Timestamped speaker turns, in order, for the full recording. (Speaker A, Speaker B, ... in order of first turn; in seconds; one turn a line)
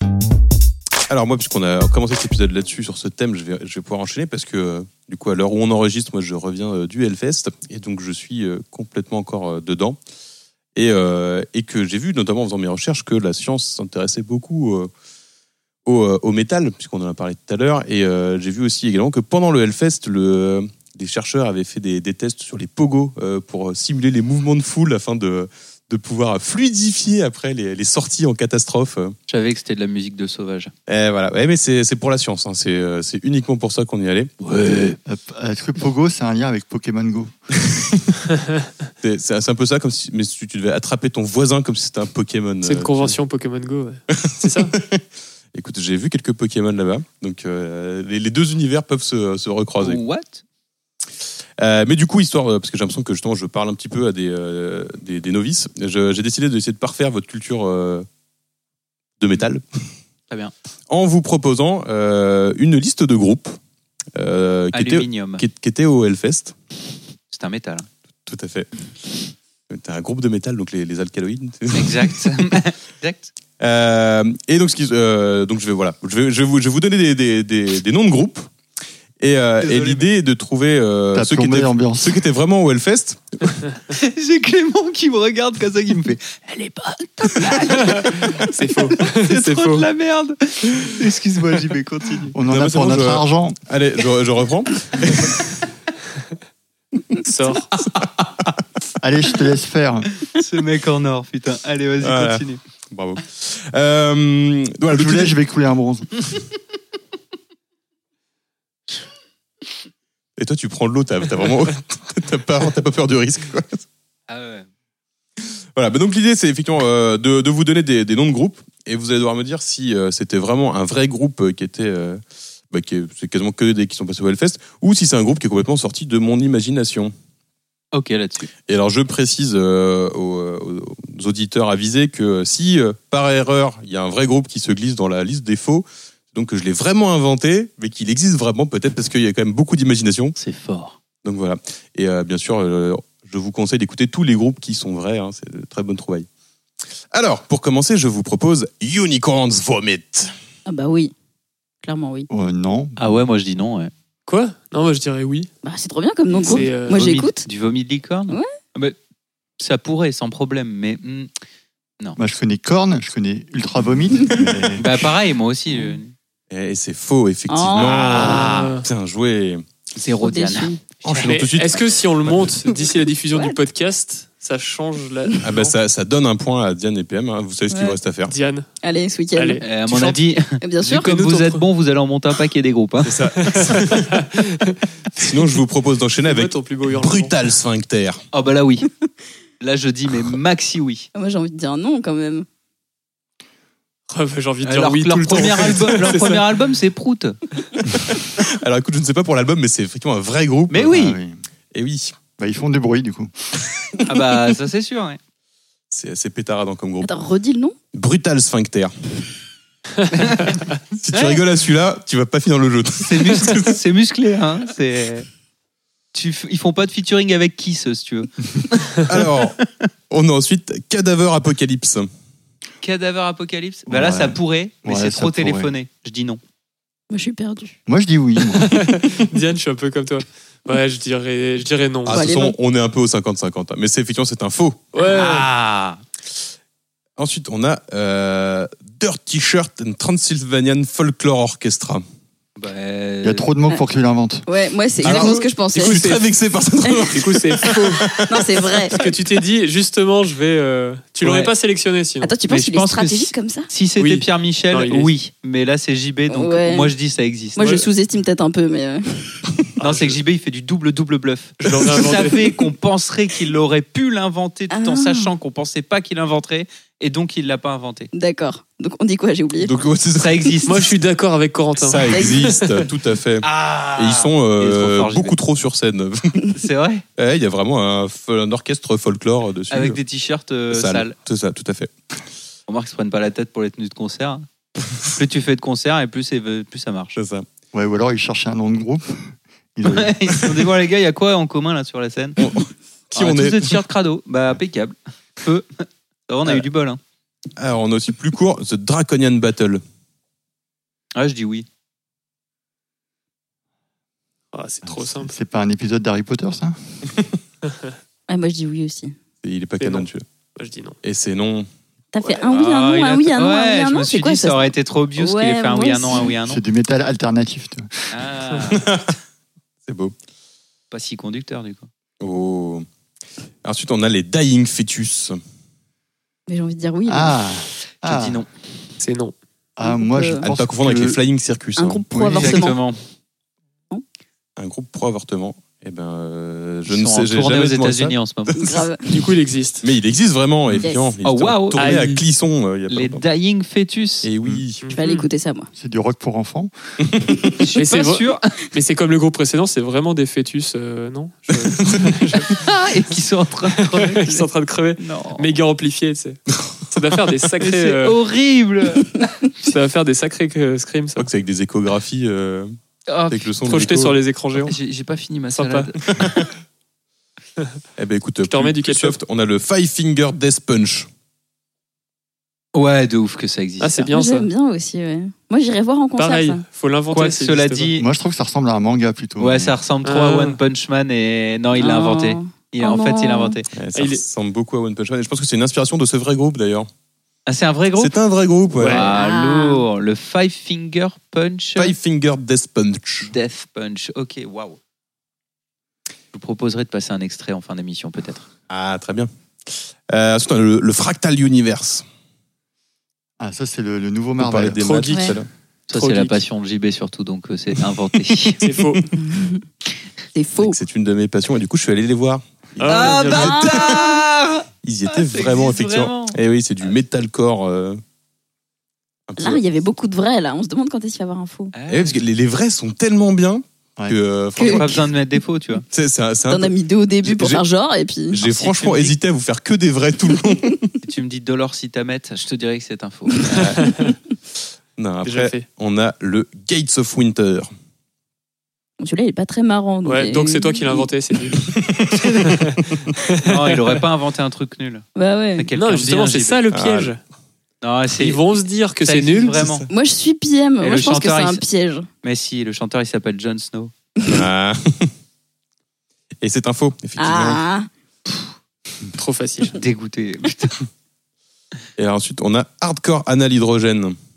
Speaker A: 1.1-10.0
Speaker A: 10.7-14.9
Speaker A: 15.9-29.1
Speaker B: 29.3-30.7
Speaker A: 30.9-34.3
Speaker B: 34.4-35.0
Speaker C: 35.0-37.3
Speaker A: 39.0-43.1
Speaker D: 42.6-44.7
Speaker A: 44.1-45.0
Speaker A: 45.5-50.0
Speaker B: 49.8-50.4
Speaker A: 51.6-58.0
Speaker A: 59.2-59.6
Speaker A: 60.9-63.6
Speaker A: 64.1-66.5
Speaker B: 64.7-65.4
Speaker B: 67.3-67.9
Speaker A: 68.3-69.2
Speaker A: 69.7-72.5
Speaker B: 71.7-73.3
Speaker A: 73.6-78.5
Speaker A: 79.2-83.6
Speaker B: 79.6-80.0
Speaker C: 81.1-82.2
Speaker B: 83.9-88.4
Speaker D: 87.9-89.9
Speaker B: 89.0-92.3
Speaker C: 92.3-93.6
Speaker A: 92.5-95.5
Speaker D: 97.2-97.7
Speaker C: 99.0-100.1
Speaker B: 100.3-102.6
Speaker A: 102.0-105.4
Speaker C: 104.9-106.1
Speaker A: 110.4-113.8
Speaker B: 114.3-114.7
Speaker A: 115.8-127.1
Speaker B: 127.9-128.5
Speaker A: 128.7-140.4
Speaker B: 140.4-141.0
Speaker A: 141.2-146.3
Speaker A: 147.1-150.3
Speaker E: 150.7-151.1
Speaker E: 151.8-152.3
Speaker C: 152.3-153.0
Speaker B: 153.0-153.9
Speaker D: 154.3-155.5
Speaker E: 155.6-157.4
Speaker D: 156.4-157.1
Speaker B: 156.5-158.9
Speaker B: 159.6-161.3
Speaker C: 162.2-164.9
Speaker B: 164.8-166.1
Speaker A: 166.5-169.6
Speaker E: 167.5-168.5
Speaker B: 167.8-168.7
Speaker D: 168.1-168.9
Speaker B: 169.9-171.3
Speaker E: 170.2-170.8
Speaker A: 171.0-172.4
Speaker D: 171.2-175.7
Speaker E: 172.7-173.6
Speaker A: 175.4-178.3
Speaker E: 177.7-178.0
Speaker D: 178.3-178.7
Speaker E: 178.8-179.7
Speaker D: 179.3-180.2
Speaker B: 179.6-183.2
Speaker E: 180.6-181.1
Speaker D: 181.0-181.6
Speaker A: 183.0-184.1
Speaker D: 183.4-185.3
Speaker A: 185.2-188.2
Speaker D: 186.2-187.3
Speaker B: 188.3-188.9
Speaker B: 189.6-191.1
Speaker E: 191.1-192.4
Speaker D: 194.1-196.4
Speaker B: 194.6-197.4
Speaker A: 198.3-200.9
Speaker B: 200.7-201.2
Speaker C: 200.9-201.4
Speaker A: 201.7-202.1
Speaker C: 202.4-203.3
Speaker B: 204.1-205.2
Speaker A: 205.9-207.2
Speaker E: 207.0-207.7
Speaker A: 207.9-208.9
Speaker D: 210.1-210.6
Speaker B: 210.1-210.6
Speaker A: 210.9-213.8
Speaker B: 211.1-211.4
Speaker B: 213.0-215.3
Speaker B: 216.1-219.5
Speaker A: 219.1-219.6
Speaker A: 220.1-222.1
Speaker B: 222.8-226.4
Speaker C: 223.9-225.7
Speaker E: 227.1-227.8
Speaker C: 227.9-228.8
Speaker D: 228.6-232.4
Speaker A: 232.1-234.8
Speaker E: 232.1-232.6
Speaker D: 234.9-235.4
Speaker B: 235.0-236.0
Speaker A: 237.2-242.0
Speaker B: 242.6-243.5
Speaker C: 243.2-244.4
Speaker E: 244.5-246.1
Speaker A: 245.0-248.8
Speaker D: 245.1-246.2
Speaker E: 246.8-247.2
Speaker D: 247.1-248.2
Speaker E: 248.2-249.0
Speaker D: 248.9-252.3
Speaker B: 251.2-251.5
Speaker E: 252.2-253.7
Speaker B: 252.5-257.9
Speaker D: 254.0-255.1
Speaker E: 256.3-256.9
Speaker E: 257.6-259.4
Speaker D: 259.8-260.2
Speaker B: 259.8-268.1
Speaker D: 261.6-262.6
Speaker E: 264.7-265.3
Speaker E: 268.1-269.8
Speaker A: 269.6-270.6
Speaker B: 270.2-270.9
Speaker D: 270.6-272.4
Speaker A: 271.8-276.5
Speaker E: 272.1-272.7
Speaker B: 273.4-275.4
Speaker B: 276.5-277.0
Speaker A: 277.2-280.0
Speaker B: 279.7-281.1
Speaker A: 280.7-281.9
Speaker B: 282.7-284.4
Speaker B: 285.0-287.2
Speaker A: 287.1-287.4
Speaker C: 287.7-290.5
Speaker B: 289.8-292.4
Speaker A: 292.4-293.8
Speaker B: 293.1-297.0
Speaker A: 297.6-299.8
Speaker B: 301.1-301.6
Speaker D: 304.5-305.3
Speaker C: 304.8-306.8
Speaker E: 308.3-309.1
Speaker A: 309.4-310.2
Speaker D: 309.8-311.0
Speaker A: 311.0-311.7
Speaker E: 312.1-316.3
Speaker B: 312.5-316.6
Speaker C: 316.4-317.9
Speaker B: 318.1-319.0
Speaker A: 318.7-319.1
Speaker A: 319.9-320.1
Speaker B: 320.9-321.9
Speaker A: 322.2-322.8
Speaker A: 323.6-325.4
Speaker E: 326.5-327.4
Speaker C: 327.1-328.4
Speaker B: 328.0-328.5
Speaker D: 329.0-329.3
Speaker C: 329.8-331.2
Speaker E: 329.8-330.4
Speaker A: 330.4-332.1
Speaker E: 331.8-332.8
Speaker C: 332.1-332.4
Speaker B: 332.3-333.0
Speaker A: 334.6-338.1
Speaker B: 336.9-338.8
Speaker E: 338.6-339.2
Speaker D: 339.1-339.9
Speaker A: 339.8-343.2
Speaker E: 340.8-341.1
Speaker B: 341.2-341.9
Speaker D: 341.7-342.2
Speaker B: 342.9-344.3
Speaker A: 344.2-344.8
Speaker D: 344.8-345.3
Speaker E: 344.9-345.7
Speaker C: 345.7-346.7
Speaker A: 347.1-347.6
Speaker B: 347.6-348.4
Speaker D: 347.8-352.7
Speaker A: 351.5-352.0
Speaker B: 352.3-355.5
Speaker D: 353.7-356.4
Speaker A: 356.6-356.8
Speaker D: 356.9-358.2
Speaker B: 357.6-359.8
Speaker D: 359.7-361.3
Speaker A: 361.2-362.7
Speaker B: 363.1-363.5
Speaker A: 363.3-364.6
Speaker D: 363.6-364.8
Speaker B: 364.6-366.4
Speaker D: 365.6-365.9
Speaker A: 368.0-371.1
Speaker D: 368.4-369.2
Speaker B: 372.7-374.1
Speaker D: 373.8-374.5
Speaker E: 374.1-376.6
Speaker D: 376.2-377.9
Speaker B: 377.1-378.0
Speaker C: 378.0-379.7
Speaker B: 379.4-383.7
Speaker D: 380.0-380.6
Speaker E: 381.7-383.6
Speaker A: 383.7-386.9
Speaker D: 383.9-384.2
Speaker B: 387.5-388.1
Speaker A: 388.0-389.0
Speaker D: 388.7-389.1
Speaker B: 388.8-391.9
Speaker E: 388.9-389.8
Speaker A: 391.8-393.3
Speaker B: 393.2-394.8
Speaker B: 396.3-398.5
Speaker A: 398.7-402.1
Speaker C: 403.4-404.8
Speaker A: 404.4-405.5
Speaker D: 404.8-405.4
Speaker E: 405.1-405.4
Speaker B: 405.9-408.6
Speaker D: 405.9-406.4
Speaker D: 408.6-409.1
Speaker E: 409.2-409.6
Speaker E: 410.3-410.8
Speaker A: 410.6-414.2
Speaker D: 412.8-413.6
Speaker B: 412.9-416.9
Speaker E: 413.1-414.2
Speaker A: 414.8-418.0
Speaker A: 419.3-419.6
Speaker E: 419.4-421.7
Speaker B: 421.7-422.2
Speaker A: 421.9-425.0
Speaker E: 424.6-425.0
Speaker B: 424.6-425.8
Speaker A: 425.9-426.7
Speaker E: 426.5-428.4
Speaker A: 427.2-427.6
Speaker A: 428.3-430.9
Speaker B: 428.4-429.1
Speaker B: 431.0-433.7
Speaker A: 433.5-433.8
Speaker D: 433.8-434.1
Speaker A: 435.0-437.7
Speaker D: 435.2-435.6
Speaker E: 439.0-441.1
Speaker D: 440.1-441.6
Speaker A: 441.6-443.1
Speaker D: 442.4-443.6
Speaker B: 443.4-446.6
Speaker E: 445.1-445.7
Speaker D: 445.7-447.2
Speaker A: 446.7-447.1
Speaker B: 447.8-448.4
Speaker D: 448.1-449.6
Speaker B: 449.0-449.9
Speaker E: 449.9-452.1
Speaker B: 450.8-451.6
Speaker B: 452.2-453.9
Speaker A: 454.2-455.1
Speaker A: 456.4-457.6
Speaker E: 457.2-457.9
Speaker D: 459.2-459.8
Speaker B: 459.7-460.8
Speaker A: 462.0-464.2